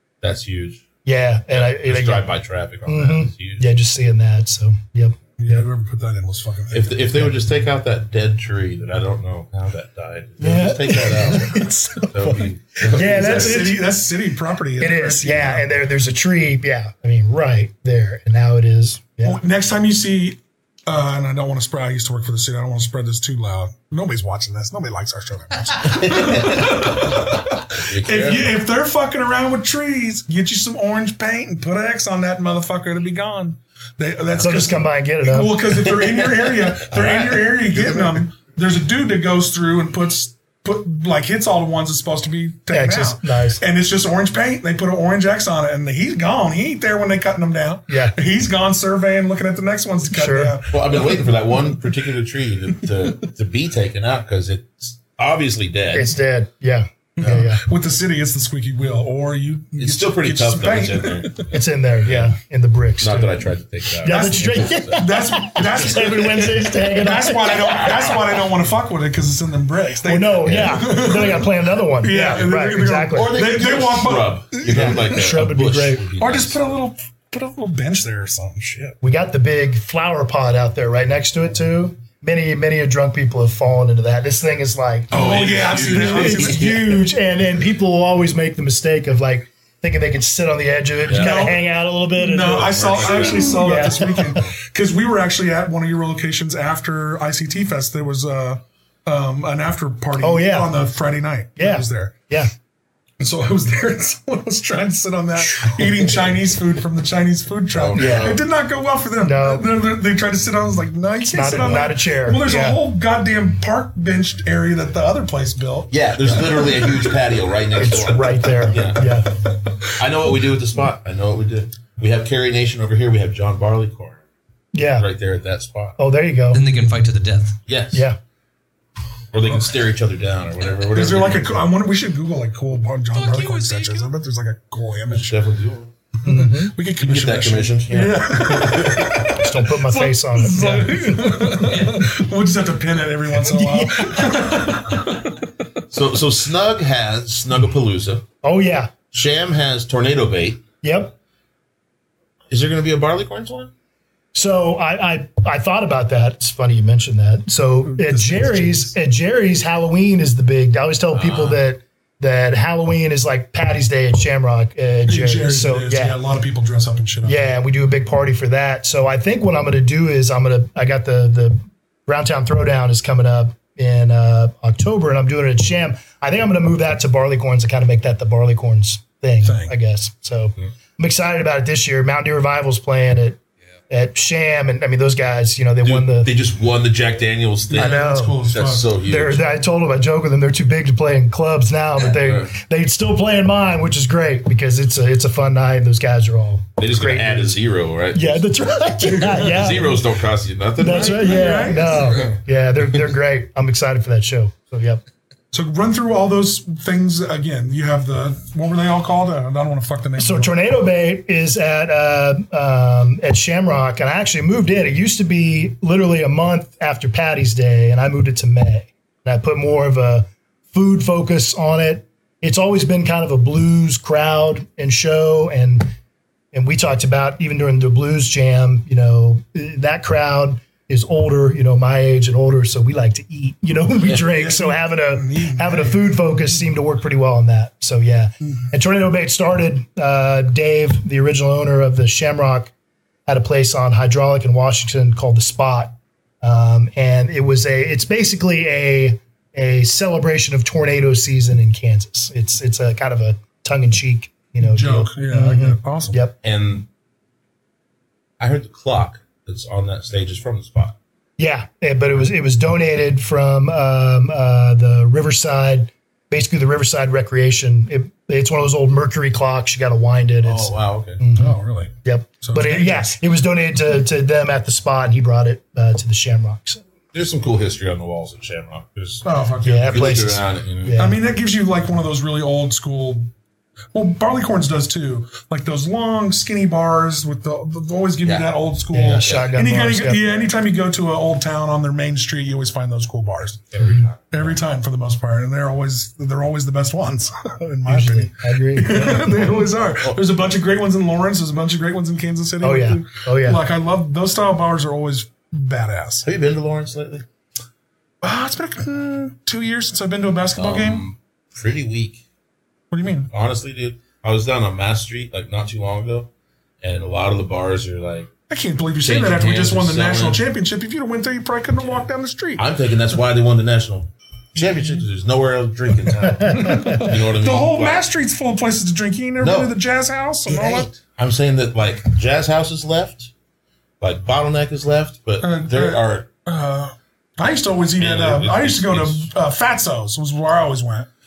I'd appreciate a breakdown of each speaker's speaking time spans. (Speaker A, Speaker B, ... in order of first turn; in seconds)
Speaker A: 0.2-0.8, 1.5-3.6, 6.7-13.7, 25.8-28.5, 36.0-38.2, 50.7-56.1, 59.8-61.5, 62.0-62.3, 63.0-65.1, 67.8-68.2, 70.4-71.0, 73.1-76.6, 85.1-86.9, 91.0-91.5, 92.5-94.5, 107.7-108.4, 115.9-119.0, 120.0-124.2, 125.0-126.0, 127.7-128.1, 129.3-131.7, 135.1-135.9, 137.0-139.3, 145.9-148.2, 149.1-150.6, 152.5-153.7, 161.1-161.6, 185.8-189.4, 192.0-192.5, 196.8-198.5, 199.1-202.4, 256.4-256.9, 258.4-260.9, 270.4-271.2, 277.1-279.2, 279.8-281.0, 288.2-289.5, 293.7-294.6, 306.2-307.2, 310.6-312.2, 313.3-316.3, 316.8-318.3, 319.0-320.4, 322.6-328.1, 329.4-329.7, 330.4-333.3, 334.0-336.3, 338.0-339.3
Speaker B: 1.0-2.3, 2.9-5.6, 10.4-13.8, 14.8-19.4, 34.4-35.9, 42.7-43.6, 47.9-48.1, 50.1-50.5, 55.9-57.6, 61.5-63.4, 64.0-68.2, 70.0-73.4, 74.6-76.0, 79.0-94.4, 100.2-100.7, 101.6-102.5, 105.5-105.9, 107.9-108.4, 109.2-109.7, 111.2-112.8, 117.8-119.3, 124.7-125.0, 126.0-126.6, 127.9-128.2, 136.2-136.8, 139.3-141.7, 143.4-144.4, 148.4-148.9, 150.8-151.1, 154.3-166.2, 167.2-183.4, 183.9-186.3, 187.7-188.4, 189.0-197.6, 198.1-200.0, 200.8-205.0, 210.2-225.9, 226.5-242.7, 243.3-256.3, 261.4-276.8, 279.6-281.2, 288.9-290.4, 293.8-294.1, 297.9-299.7, 302.6-303.6, 326.4-327.0
Speaker C: 5.4-7.1, 12.9-15.7, 19.2-51.3, 57.2-61.5, 64.0-75.2, 76.2-79.0, 85.1-87.0, 91.1-102.1, 103.2-117.1, 130.9-135.4, 136.2-145.4, 157.8-158.9, 165.1-167.4, 179.4-179.7, 187.7-188.8, 199.0-199.8, 200.8-202.3, 205.5-210.5, 234.3-236.2, 254.6-256.2, 271.4-273.1, 279.2-280.2, 280.9-283.3, 283.9-293.7, 294.3-306.3, 308.2-311.0, 312.9-313.3, 318.5-322.6, 326.5-330.9, 335.4-341.1
Speaker D: 126.5-127.6, 133.3-134.0, 141.7-142.0